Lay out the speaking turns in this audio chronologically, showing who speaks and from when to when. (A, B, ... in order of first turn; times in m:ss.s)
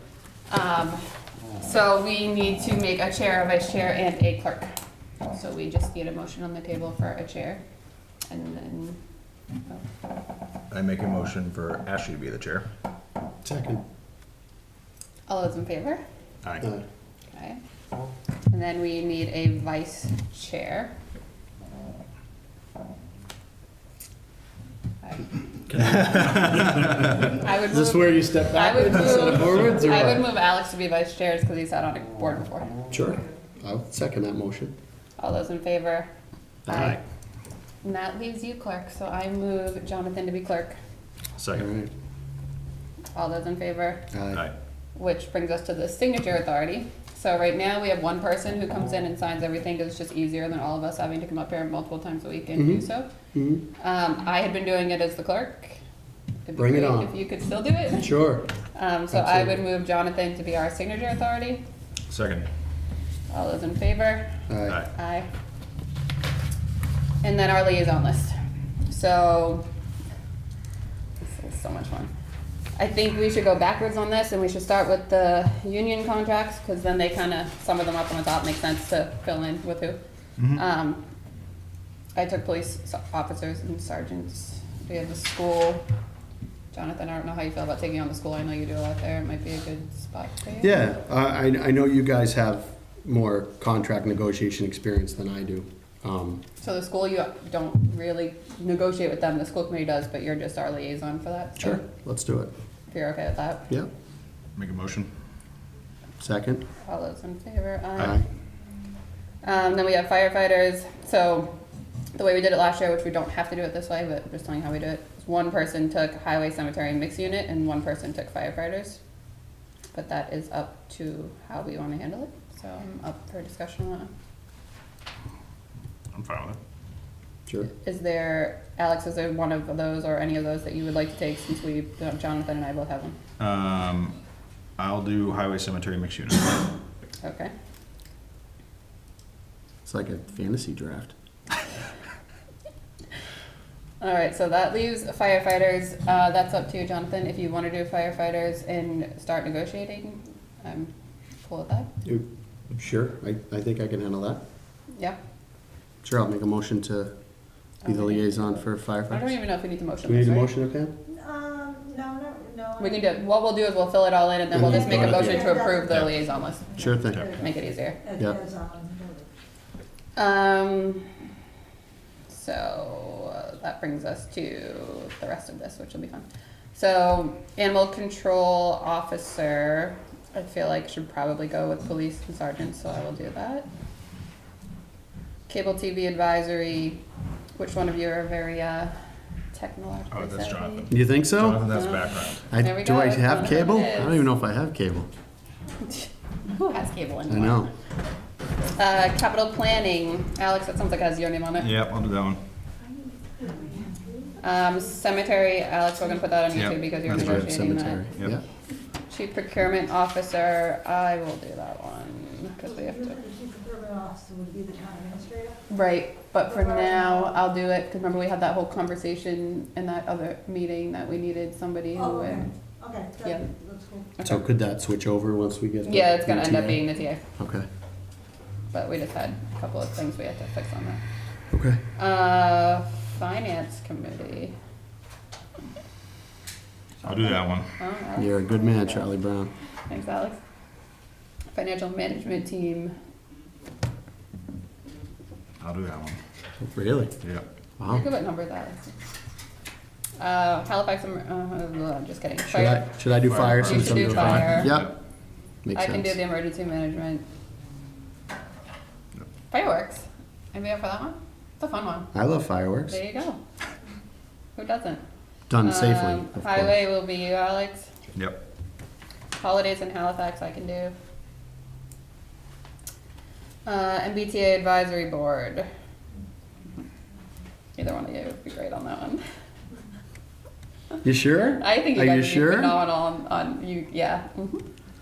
0:00.5-0:01.0 A
0:01.6-0:04.7 A
0:05.3-0:07.6 A
0:08.3-0:09.0 A
0:10.7-0:12.7 B
0:13.4-0:13.8 C
0:15.3-0:16.0 A
0:16.4-0:16.7 B
0:17.3-0:17.6 A
0:18.5-0:20.9 A
0:25.0-0:25.3 A
0:25.7-0:27.3 B
0:25.8-0:30.3 C
0:27.4-0:32.7 A
0:32.9-0:34.8 C
0:35.2-0:36.1 A
0:36.7-0:37.0 C
0:36.7-0:37.0 A
0:36.7-0:37.0 B
0:37.8-0:40.8 A
0:41.4-0:41.7 B
0:41.6-0:41.9 C
0:43.1-0:44.1 A
0:44.1-0:44.5 C
0:45.0-0:53.1 A
0:52.6-0:53.6 C
0:53.8-0:55.8 A
0:56.4-0:58.2 A
0:56.6-0:57.1 C
0:58.0-0:58.5 C
0:58.7-1:01.6 A
0:59.1-0:59.6 C
1:02.1-1:02.5 B
1:03.3-1:04.4 A
1:04.5-1:04.9 C
1:04.9-1:05.3 A
1:07.2-1:09.7 A
1:11.3-1:12.1 A
1:12.8-1:20.0 A
1:20.4-1:20.6 B
1:20.5-1:21.0 A
1:22.2-1:25.8 A
1:26.7-1:30.8 A
1:30.6-1:36.4 C
1:36.6-1:41.8 A
1:41.6-1:42.5 C
1:42.9-1:43.7 A
1:44.6-1:45.1 B
1:46.2-1:46.7 C
1:46.8-1:48.2 A
1:48.0-1:48.3 C
1:49.4-1:51.6 A
1:52.1-1:59.0 A
1:59.9-2:04.1 A
2:06.1-2:06.6 B
2:07.7-2:13.2 A
2:13.4-2:14.2 B
2:14.8-2:16.6 B
2:17.2-2:17.5 A
2:19.8-2:21.1 C
2:24.0-2:31.9 A
2:32.0-2:34.4 C
2:36.0-2:37.1 C
2:37.8-2:39.3 C
2:37.8-2:40.5 A
2:40.0-2:41.0 C
2:41.1-2:43.1 D
2:42.8-2:48.0 A
2:44.5-2:45.6 C
2:44.6-2:49.3 D
2:46.8-2:47.3 C
2:50.2-2:51.1 A
2:52.3-3:03.7 A
3:05.5-3:07.0 A
3:07.6-3:09.0 A
3:09.5-3:10.9 A
3:10.1-3:12.4 B
3:10.9-3:11.7 C
3:11.7-3:14.2 A
3:12.5-3:15.1 C
3:15.8-3:17.7 A
3:17.3-3:17.7 C
3:18.8-3:21.7 A
3:21.6-3:22.4 B
3:23.4-3:24.3 D
3:24.4-3:28.1 A
3:26.5-3:27.6 B
3:27.1-3:28.4 C
3:29.1-3:33.2 A
3:32.6-3:35.6 D
3:35.7-3:42.5 A
3:36.5-3:37.4 D
3:42.0-3:44.1 D
3:44.2-3:44.4 A
3:44.2-3:46.8 C
3:45.8-3:47.2 A
3:47.4-3:47.7 C
3:48.7-3:51.0 A
3:51.5-3:51.8 C
3:52.0-3:54.6 A
3:57.0-3:59.1 A
3:57.0-3:57.7 B
3:58.2-3:59.5 C
3:59.9-4:00.4 A
4:01.5-4:02.9 A
4:05.6-4:06.2 B
4:06.6-4:07.2 C
4:07.8-4:08.0 C
4:07.8-4:08.9 A
4:10.2-4:12.9 A
4:12.5-4:15.0 C
4:13.2-4:14.9 B
4:13.5-4:14.7 A
4:15.6-4:16.2 C
4:15.7-4:17.2 A
4:19.5-4:22.1 A
4:22.1-4:23.0 C
4:22.9-4:23.4 A
4:24.6-4:25.0 A
4:25.5-4:26.8 C
4:25.6-4:27.9 A
4:28.1-4:28.4 B
4:29.4-4:30.9 A
4:33.6-4:35.7 A
4:37.8-4:39.2 A
4:41.0-4:42.8 C
4:41.6-4:44.6 A